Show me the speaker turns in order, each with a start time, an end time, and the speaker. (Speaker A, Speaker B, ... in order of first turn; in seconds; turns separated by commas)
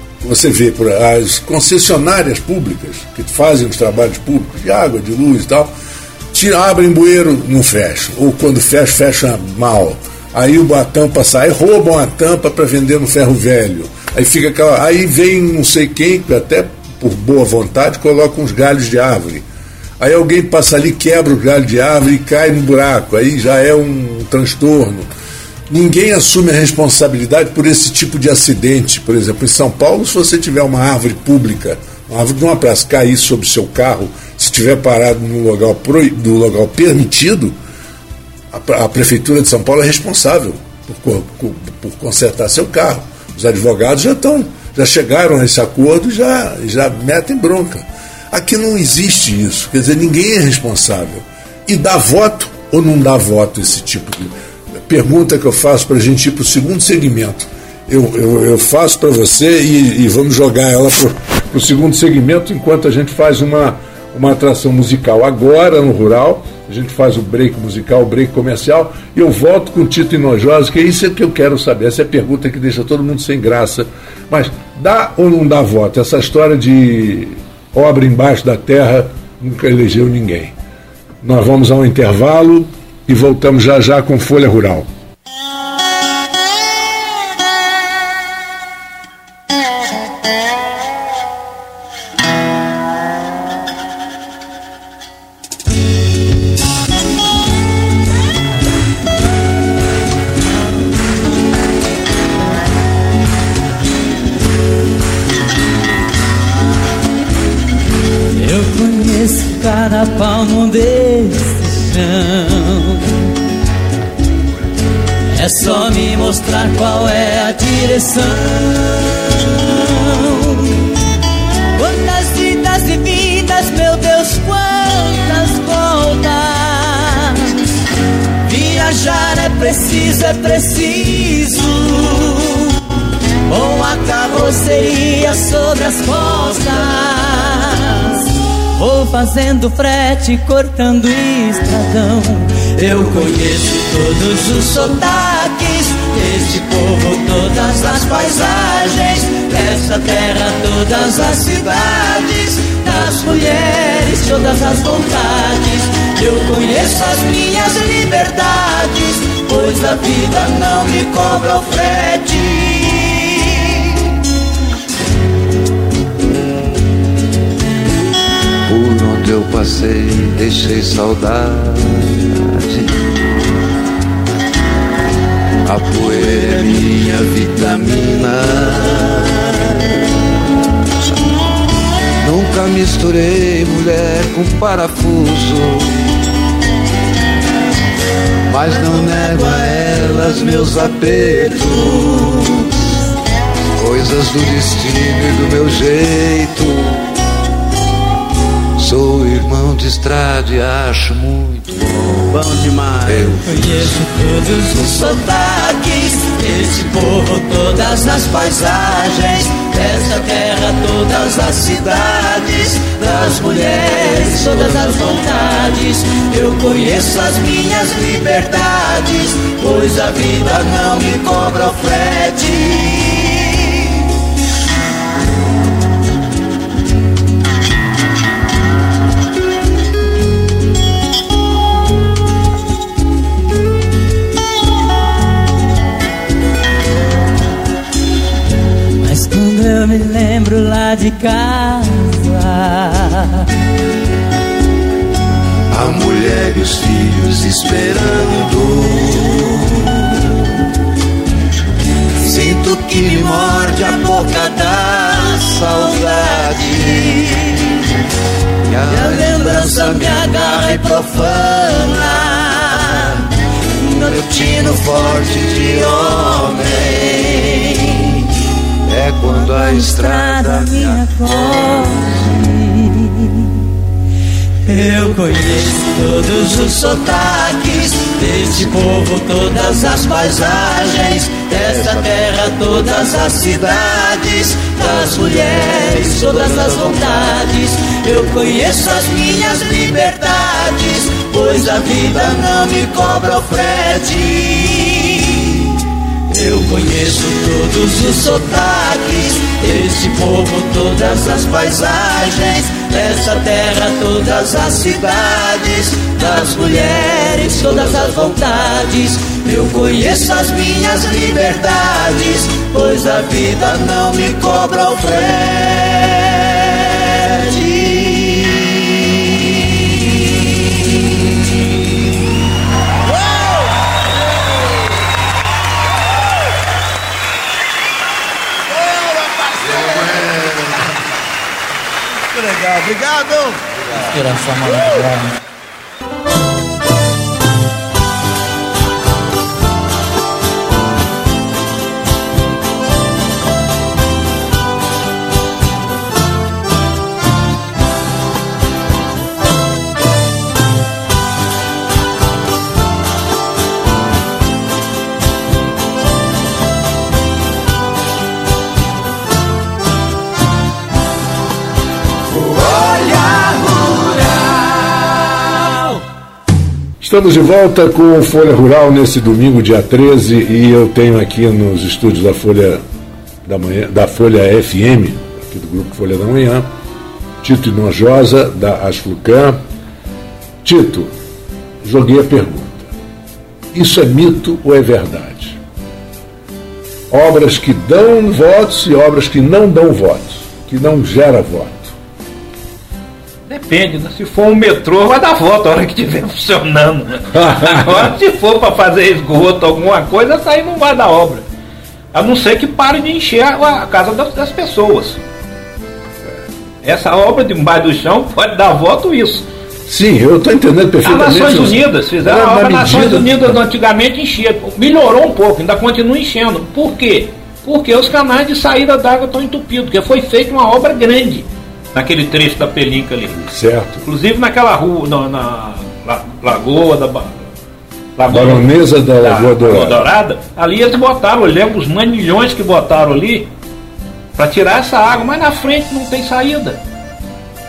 Speaker A: 0.2-5.7, Speaker A: 6.3-19.4, Speaker A: 20.0-25.1, Speaker A: 25.7-37.5, Speaker A: 38.5-80.5, Speaker A: 81.2-84.9, Speaker B: 108.4-113.3, Speaker B: 115.3-120.9, Speaker B: 121.8-127.6, Speaker B: 128.4-132.8, Speaker B: 133.5-163.9, Speaker C: 168.7-173.5, Speaker C: 175.6-180.4, Speaker C: 182.2-186.1, Speaker C: 188.5-192.7, Speaker C: 193.8-197.0, Speaker C: 198.8-204.0, Speaker B: 202.9-223.8, Speaker B: 239.0-243.5, Speaker C: 245.7-250.5, Speaker C: 252.2-254.3, Speaker B: 254.0-257.6, Speaker C: 255.3-257.2, Speaker C: 258.7-260.8, Speaker B: 258.9-263.2, Speaker C: 263.8-267.2, Speaker B: 263.9-268.0, Speaker C: 268.9-272.4, Speaker B: 269.2-273.6, Speaker B: 274.6-295.8, Speaker B: 296.3-318.8, Speaker C: 329.7-330.6, Speaker B: 334.2-335.1, Speaker B: 362.6-364.1, Speaker A: 367.0-372.8, Speaker A: 373.4-376.7, Speaker A: 377.4-379.6, Speaker A: 380.6-381.1, Speaker A: 381.8-382.9, Speaker A: 383.7-385.6, Speaker A: 387.1-391.9, Speaker D: 393.5-401.4, Speaker A: 397.3-398.1, Speaker D: 402.1-405.2, Speaker D: 406.8-409.5, Speaker A: 409.9-413.6, Speaker D: 411.0-423.4, Speaker A: 423.3-424.1, Speaker D: 424.0-427.4, Speaker D: 428.2-433.5, Speaker A: 428.3-430.1, Speaker D: 434.4-436.8